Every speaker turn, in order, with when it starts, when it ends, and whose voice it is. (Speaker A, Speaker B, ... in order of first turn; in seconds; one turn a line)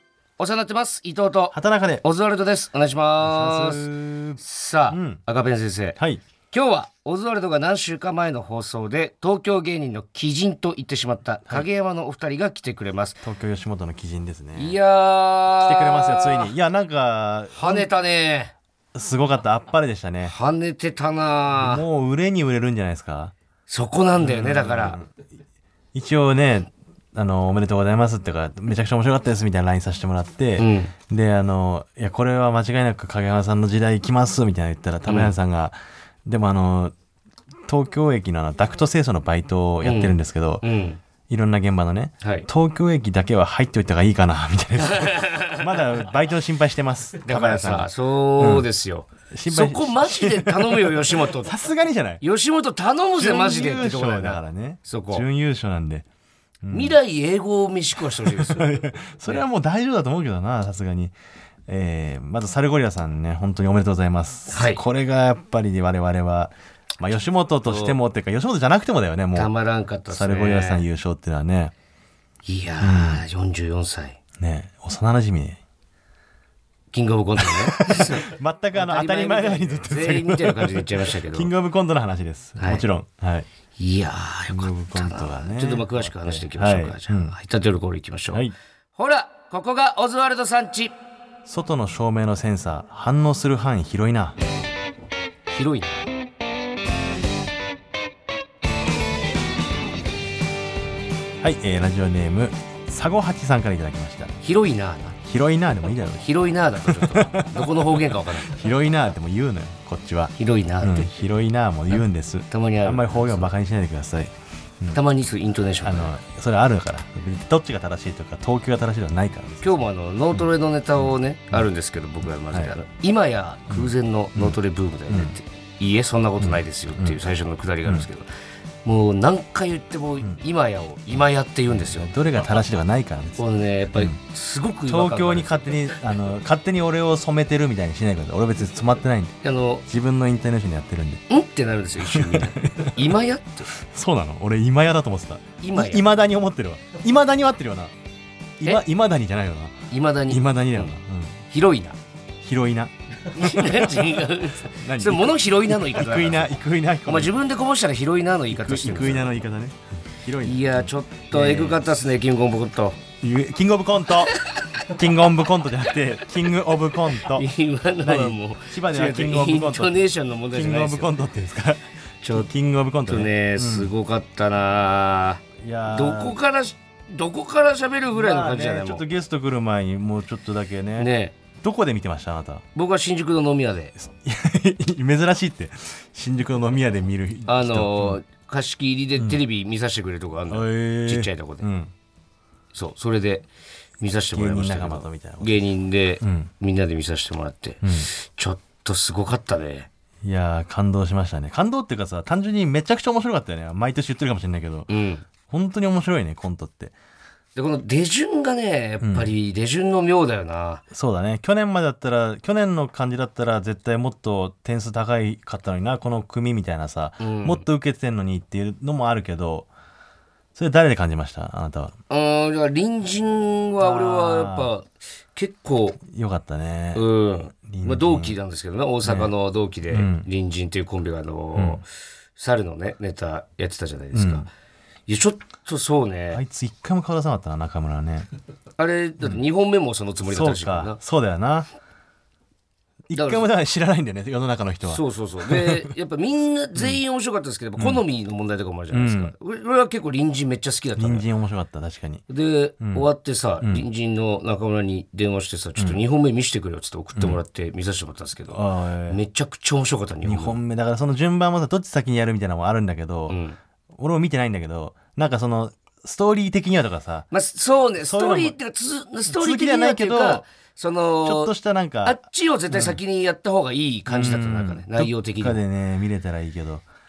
Speaker A: 0.4-3.9
Speaker B: 1.5-2.0
Speaker B: 3.2-5.2
Speaker A: 4.4-6.0
Speaker A: 6.5-13.2
Speaker B: 13.2-14.8
Speaker A: 14.6-16.5
Speaker B: 15.6-17.9
Speaker A: 17.5-18.5
Speaker B: 18.9-20.3
Speaker A: 20.2-21.8
Speaker B: 21.5-23.3
Speaker A: 23.7-25.0
Speaker B: 24.2-25.1
Speaker B: 25.9-36.9
Speaker A: 30.6-30.9
Speaker A: 35.0-35.3
Speaker B: 37.7-40.6
Speaker A: 39.8-41.0
Speaker B: 41.3-48.7
Speaker A: 42.2-42.5
Speaker A: 45.0-45.5
Speaker A: 47.2-51.5
Speaker B: 49.3-52.2
Speaker A: 52.2-55.2
Speaker B: 53.2-56.0
Speaker B: 56.6-57.0
Speaker A: 56.7-59.4
Speaker B: 58.3-61.1
Speaker B: 61.7-69.5
Speaker A: 64.5-64.8
Speaker A: 67.6-68.0
Speaker A: 69.3-70.8
Speaker B: 70.1-71.7
Speaker A: 72.4-74.2
Speaker B: 72.8-73.2
Speaker B: 74.4-75.6
Speaker A: 76.9-81.5
Speaker B: 77.4-83.5
Speaker A: 82.6-82.8
Speaker A: 83.8-88.4
Speaker B: 84.5-87.3
Speaker A: 89.0-90.9
Speaker B: 91.5-94.4
Speaker A: 95.5-96.0
Speaker B: 101.4-104.3
Speaker A: 104.4-105.2
Speaker B: 105.2-106.3
Speaker A: 106.2-108.5
Speaker B: 106.8-107.8
Speaker B: 108.3-115.0
Speaker A: 110.4-111.1
Speaker A: 112.5-113.5
Speaker A: 114.9-116.2
Speaker B: 115.8-119.8
Speaker A: 119.6-128.3
Speaker B: 121.0-121.7
Speaker B: 122.2-122.8
Speaker B: 123.7-124.6
Speaker B: 125.1-125.3
Speaker B: 126.4-127.2
Speaker A: 128.8-132.1
Speaker B: 131.7-134.2
Speaker A: 133.4-135.7
Speaker B: 134.9-141.2
Speaker A: 139.4-139.8
Speaker A: 141.3-143.7
Speaker B: 142.0-142.9
Speaker B: 143.7-147.9
Speaker A: 145.6-146.1
Speaker B: 148.6-151.4
Speaker A: 149.9-150.9
Speaker A: 151.5-152.0
Speaker B: 152.4-154.0
Speaker A: 153.2-156.5
Speaker B: 154.7-157.3
Speaker A: 157.0-159.3
Speaker B: 158.5-161.9
Speaker A: 160.4-163.0
Speaker B: 163.2-164.3
Speaker B: 164.9-167.5
Speaker A: 167.3-171.1
Speaker B: 168.0-173.9
Speaker A: 172.2-172.5
Speaker A: 173.1-179.0
Speaker B: 175.6-176.4
Speaker B: 178.1-182.6
Speaker A: 181.0-181.3
Speaker A: 182.7-183.9
Speaker B: 183.9-188.2
Speaker A: 187.5-191.7
Speaker B: 190.5-191.9
Speaker A: 192.7-193.5
Speaker A: 194.0-199.9
Speaker B: 194.3-195.6
Speaker B: 196.2-196.5
Speaker B: 197.8-198.1
Speaker B: 200.2-204.9
Speaker A: 204.9-205.2
Speaker B: 205.4-206.9
Speaker A: 207.5-210.8
Speaker B: 209.0-209.3
Speaker B: 210.9-219.7
Speaker A: 217.2-217.6
Speaker B: 220.5-221.9
Speaker A: 222.1-226.0
Speaker B: 223.8-224.7
Speaker B: 226.0-227.0
Speaker A: 226.9-234.5
Speaker B: 227.6-228.4
Speaker B: 229.0-229.3
Speaker B: 229.9-230.3
Speaker B: 231.5-231.8
Speaker B: 234.1-234.5
Speaker A: 235.1-236.4
Speaker B: 236.3-238.3
Speaker A: 238.8-241.0
Speaker B: 240.2-241.7
Speaker B: 243.1-245.9
Speaker A: 243.1-243.5
Speaker A: 244.9-251.3
Speaker B: 247.8-248.0
Speaker B: 248.9-249.3
Speaker B: 250.9-252.2
Speaker A: 252.3-260.6
Speaker B: 252.8-253.1
Speaker B: 258.5-259.2
Speaker B: 260.2-263.4
Speaker A: 263.3-263.6
Speaker B: 263.9-267.3
Speaker A: 267.3-275.6
Speaker B: 268.0-268.5
Speaker B: 269.3-270.4
Speaker B: 271.2-273.0
Speaker B: 274.1-276.8